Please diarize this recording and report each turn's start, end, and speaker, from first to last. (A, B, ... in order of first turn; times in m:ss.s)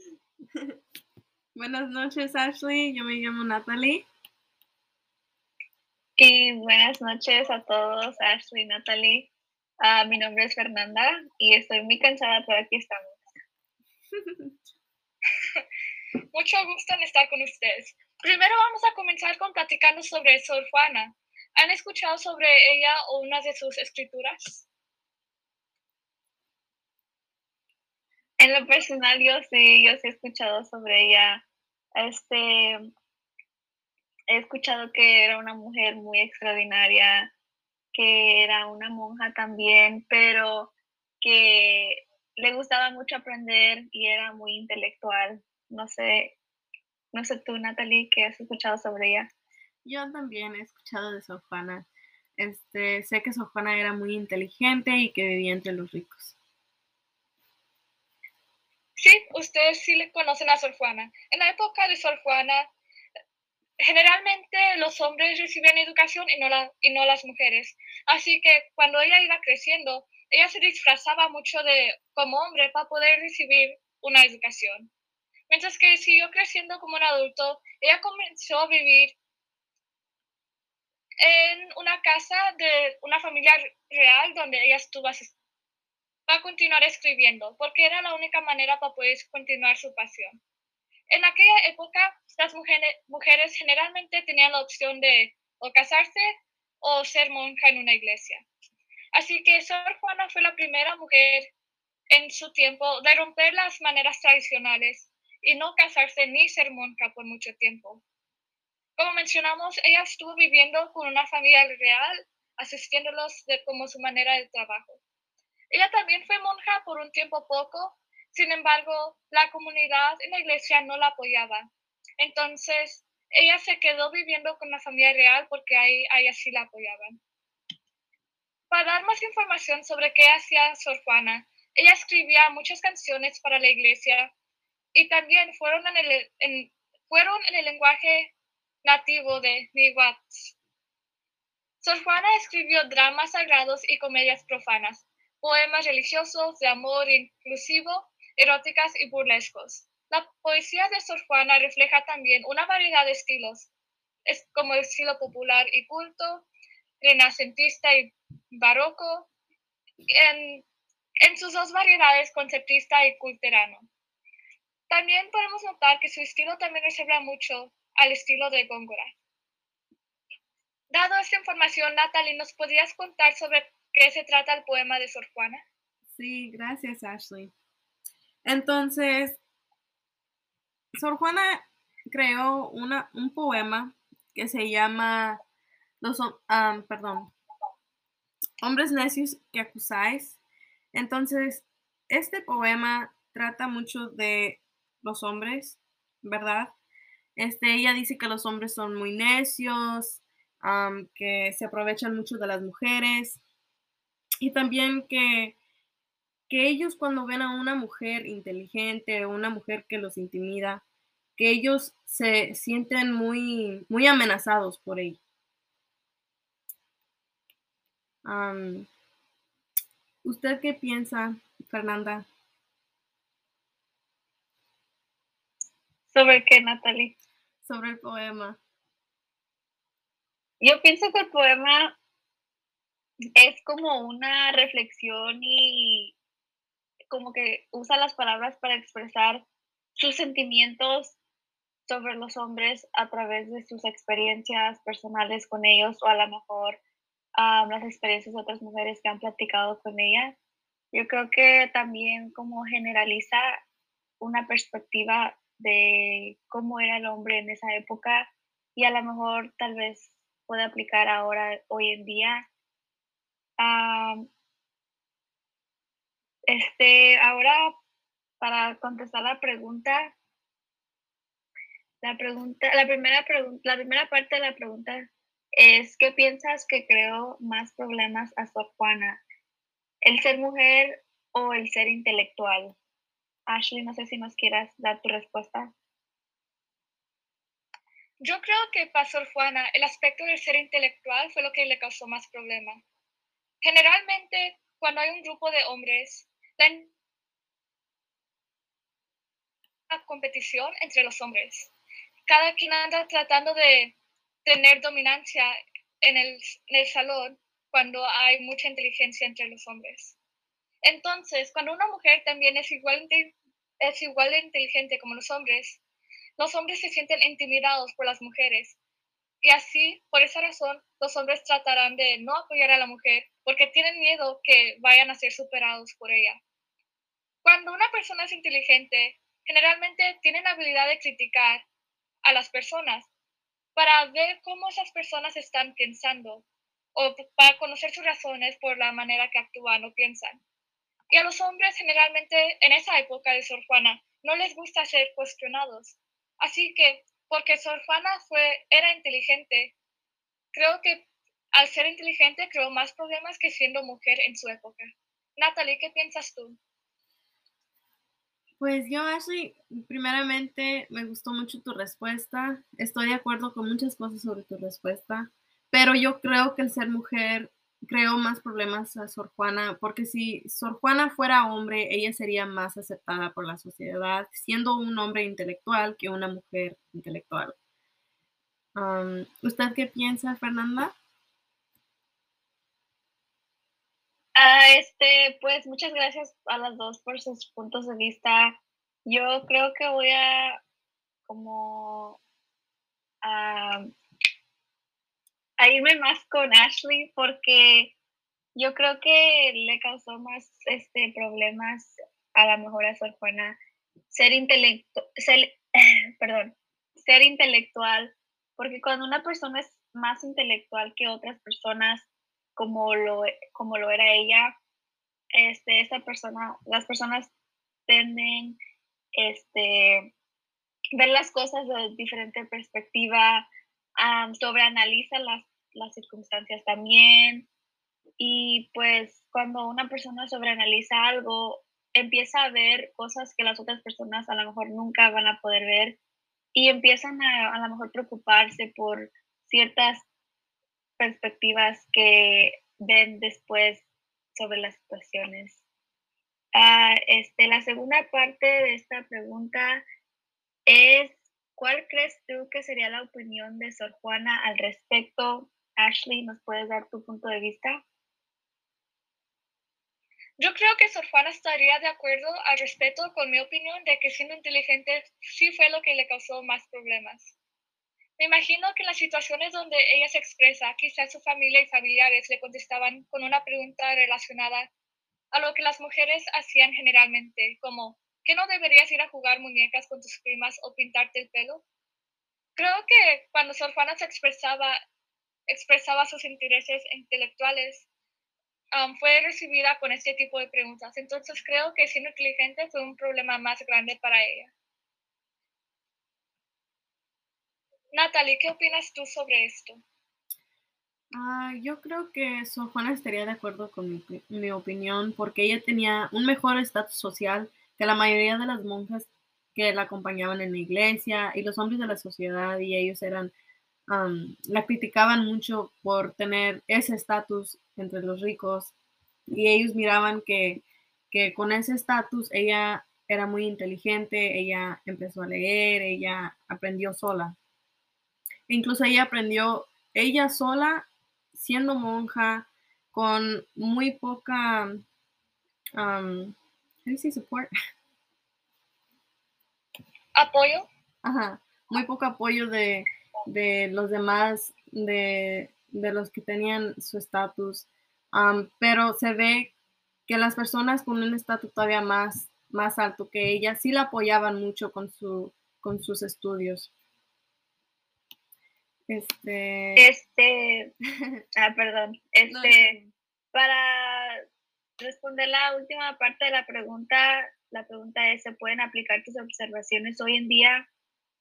0:01.5-0:04.1 A
0:06.2-0:09.3 B
0:09.8-0:13.2 B
0:14.2-0:14.5 A
0:16.3-0:24.7 C
0:28.4-0:31.4 B
0:32.0-0:32.8 B
0:34.3-0:37.3 B
0:37.9-0:46.4 B
0:47.1-0:49.3 B
0:49.8-0:56.3 A
0:59.0-1:02.7 C
1:03.8-1:14.9 C
1:15.5-1:19.2 C
1:21.2-1:25.3 C
1:26.3-1:30.4 C
1:31.1-1:38.5 C
1:39.1-1:41.5 C
1:42.1-1:48.0 C
1:49.0-1:55.0 C
1:55.7-2:07.2 C
2:08.7-2:14.3 C
2:14.9-2:18.3 C
2:18.8-2:20.6 C
2:21.8-2:33.7 C
2:34.2-2:36.5 C
2:37.0-2:39.3 C
2:40.1-2:40.6 C
2:41.2-2:43.9 C
2:44.9-2:49.1 C
2:50.9-2:55.6 C
2:56.1-2:57.5 A
2:58.4-2:59.4 A
3:00.9-3:05.4 A
3:06.0-3:07.3 A
3:08.6-3:10.4 A
3:10.9-3:16.7 A
3:17.4-3:23.4 A
3:24.4-3:25.6 A
3:26.5-3:30.8 A
3:31.4-3:35.2 A
3:38.2-3:38.9 A
3:40.2-3:42.3 A
3:46.1-3:47.1 B
3:47.6-3:48.6 A
3:50.6-3:52.0 B
3:53.4-3:56.1 B
3:57.1-3:59.4 B
4:00.0-4:01.2 B
4:01.9-4:06.8 B
4:07.4-4:10.4 B
4:10.9-4:13.5 B
4:14.2-4:22.4 B
4:23.6-4:24.3 B
4:26.5-4:27.7 B
4:28.4-4:30.1 B
4:32.0-4:39.2 B
4:40.0-4:42.8 B
4:43.5-4:45.7 B
4:48.2-4:52.8 C
4:53.6-4:56.9 C
4:59.9-5:01.7 C
5:02.2-5:10.2 C
5:10.8-5:15.8 C
5:16.4-5:18.8 C
5:19.4-5:26.4 C
5:27.4-5:31.6 C
5:32.2-5:33.1 C
5:33.7-5:40.4 C
5:41.1-5:49.7 C
5:50.5-5:56.6 C
5:58.6-6:17.6 A
6:18.8-6:20.9 A
6:24.4-6:30.6 B
6:31.3-6:32.2 B
6:33.2-6:33.8 B
6:35.6-6:37.9 B
6:38.6-6:43.6 B
6:44.1-6:45.6 B
6:46.2-6:54.5 B
6:55.3-6:57.3 B
6:57.9-6:58.6 B
6:59.2-7:00.1 B
7:01.0-7:07.5 B
7:08.2-7:16.0 B
7:16.5-7:20.0 B
7:21.0-7:25.6 B
7:26.5-7:29.8 B
7:30.7-7:37.8 B
7:40.4-7:47.3 C
7:48.2-7:54.7 C
7:55.3-8:01.6 C
8:02.6-8:04.8 C
8:05.5-8:07.9 C
8:08.7-8:14.5 C
8:17.9-8:19.8 C
8:21.1-8:33.3 A
8:33.9-8:38.7 A
8:39.3-8:47.4 A
8:48.5-8:54.8 A
8:55.8-8:57.5 A
9:00.1-9:00.7 C
9:01.0-9:09.5 A
9:10.1-9:16.7 A
9:18.9-9:19.8 A
9:19.8-9:20.7 B
9:21.4-9:22.7 B
9:22.3-9:22.9 A
9:23.3-9:24.2 B
9:24.8-9:30.7 B